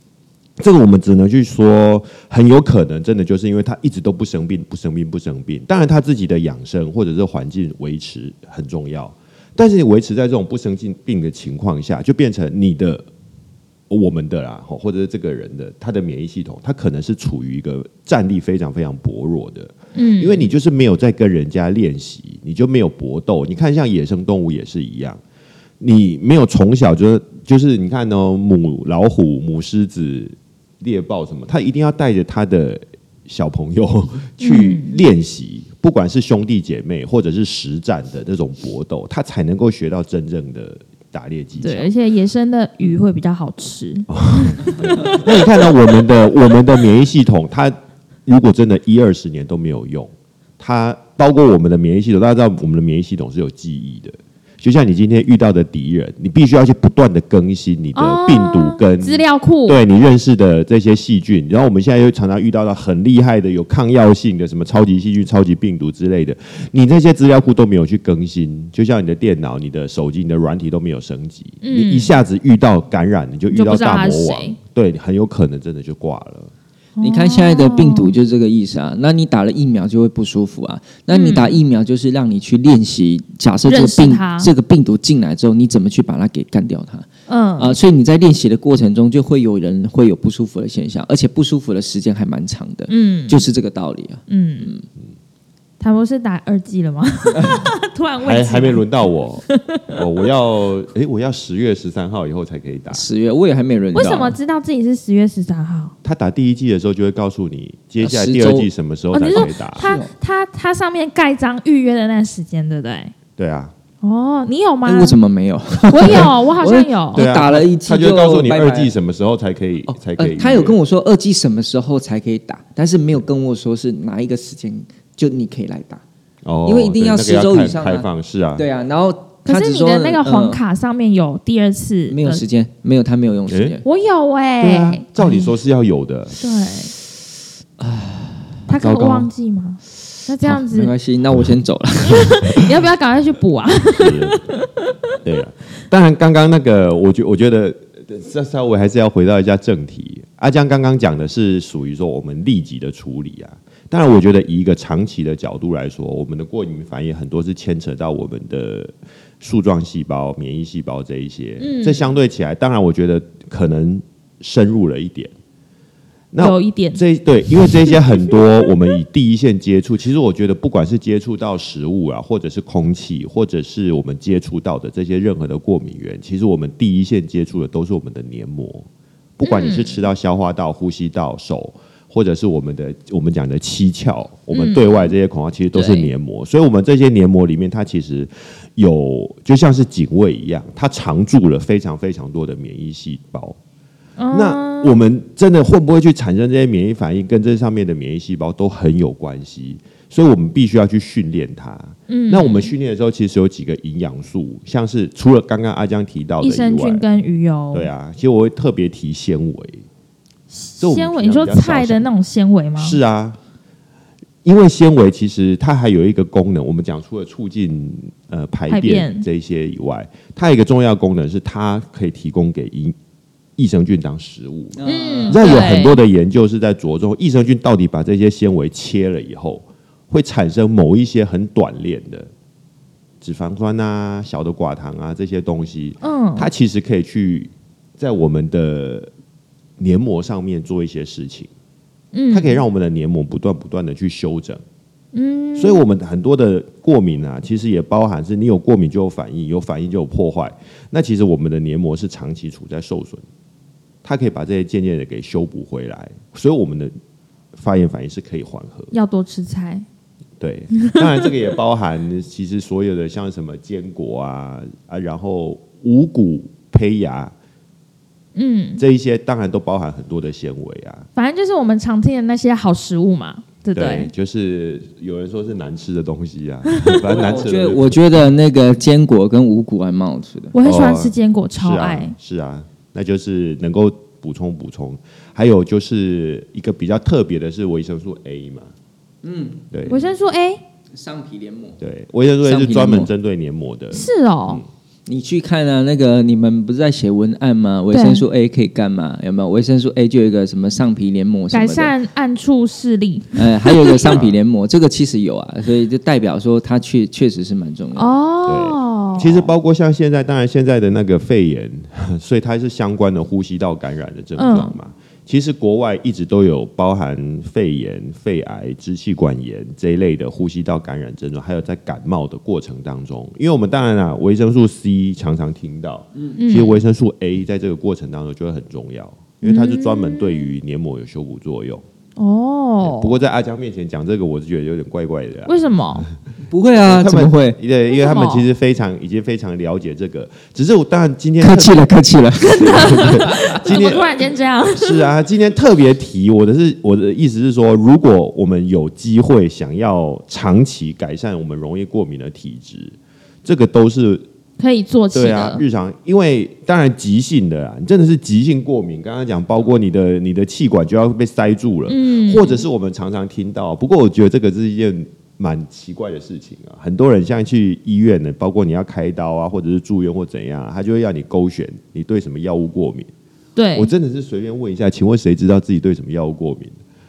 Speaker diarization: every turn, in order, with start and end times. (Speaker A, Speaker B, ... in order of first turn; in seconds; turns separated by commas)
Speaker A: 0.6-13.0, Speaker A: 13.9-25.2, Speaker B: 19.9-20.5, Speaker A: 25.8-41.9, Speaker B: 34.4-35.0, Speaker B: 41.6-45.4, Speaker A: 44.1-47.7, Speaker A: 48.2-76.5, Speaker B: 57.9-59.8, Speaker B: 71.6-72.1, Speaker B: 73.5-74.6, Speaker B: 77.0-78.1, Speaker C: 77.0-87.1, Speaker B: 81.1-81.6, Speaker B: 83.7-84.5, Speaker B: 87.3-87.8, Speaker C: 87.6-94.8, Speaker B: 92.9-93.4, Speaker B: 94.3-94.7, Speaker B: 95.8-98.8, Speaker A: 98.2-103.0, Speaker B: 99.5-100.0, Speaker C: 102.9-104.4, Speaker B: 103.9-105.9, Speaker A: 106.0-109.9, Speaker C: 108.0-108.7, Speaker B: 109.1-113.1, Speaker C: 109.3-110.1, Speaker A: 113.4-113.7, Speaker B: 114.0-115.2, Speaker C: 114.8-118.9, Speaker B: 115.9-117.2, Speaker A: 116.0-116.3, Speaker A: 117.1-120.8, Speaker C: 119.9-126.0, Speaker A: 126.4-128.7, Speaker C: 126.6-128.1, Speaker C: 128.6-130.6, Speaker B: 129.4-132.4, Speaker C: 132.1-133.8, Speaker A: 133.5-133.8, Speaker B: 133.8-135.5, Speaker A: 134.6-136.4, Speaker B: 136.4-136.9, Speaker C: 137.8-138.6, Speaker B: 138.7-140.9, Speaker A: 138.7-139.3, Speaker C: 140.5-142.7, Speaker B: 142.1-144.9, Speaker A: 144.0-144.5, Speaker A: 145.2-165.3, Speaker B: 161.6-162.0, Speaker A: 166.3-178.8, Speaker B: 166.4-167.0, Speaker B: 167.6-167.9, Speaker A: 179.4-193.6, Speaker B: 179.4-180.0, Speaker B: 184.5-185.1, Speaker B: 185.7-186.1, Speaker B: 194.2-195.0, Speaker A: 194.3-207.0, Speaker B: 202.1-202.7, Speaker B: 206.4-207.9, Speaker A: 207.7-209.8, Speaker B: 210.5-213.0, Speaker A: 210.8-212.1, Speaker A: 212.8-213.4, Speaker A: 214.4-222.9, Speaker B: 218.7-219.2, Speaker A: 223.6-224.8, Speaker C: 224.8-225.5, Speaker B: 224.8-226.0, Speaker A: 225.3-232.3, Speaker A: 233.2-239.1, Speaker B: 236.0-236.5, Speaker A: 239.8-241.5, Speaker B: 242.1-242.6, Speaker A: 242.3-244.6, Speaker B: 245.1-245.8, Speaker A: 245.6-253.2, Speaker A: 254.0-256.9, Speaker A: 257.5-258.9, Speaker B: 258.9-259.8, Speaker A: 260.4-267.3, Speaker B: 268.3-268.8, Speaker A: 268.8-271.1, Speaker B: 271.1-274.1, Speaker A: 273.7-278.0, Speaker C: 277.0-280.5, Speaker B: 280.5-282.1, Speaker A: 280.6-288.7, Speaker C: 289.2-289.7, Speaker A: 289.7-290.0, Speaker B: 289.9-290.6, Speaker C: 290.9-291.8, Speaker A: 291.8-294.6, Speaker C: 292.4-293.1, Speaker B: 293.9-294.6, Speaker C: 295.1-301.9, Speaker B: 297.9-298.2, Speaker B: 301.5-304.1, Speaker C: 303.3-308.1, Speaker A: 304.0-304.4, Speaker B: 308.0-309.5, Speaker A: 308.5-331.8, Speaker B: 314.4-314.7, Speaker B: 326.4-326.8, Speaker B: 329.4-330.5, Speaker B: 332.2-333.1, Speaker A: 332.8-336.0, Speaker B: 335.5-336.0, Speaker C: 336.5-337.6, Speaker A: 336.8-341.9, Speaker B: 337.9-338.5, Speaker C: 341.4-343.5, Speaker B: 342.5-345.0, Speaker A: 342.6-344.1, Speaker A: 344.7-354.2, Speaker B: 354.6-355.6, Speaker A: 355.1-373.1, Speaker B: 361.9-362.6, Speaker B: 373.6-373.9, Speaker A: 373.7-376.8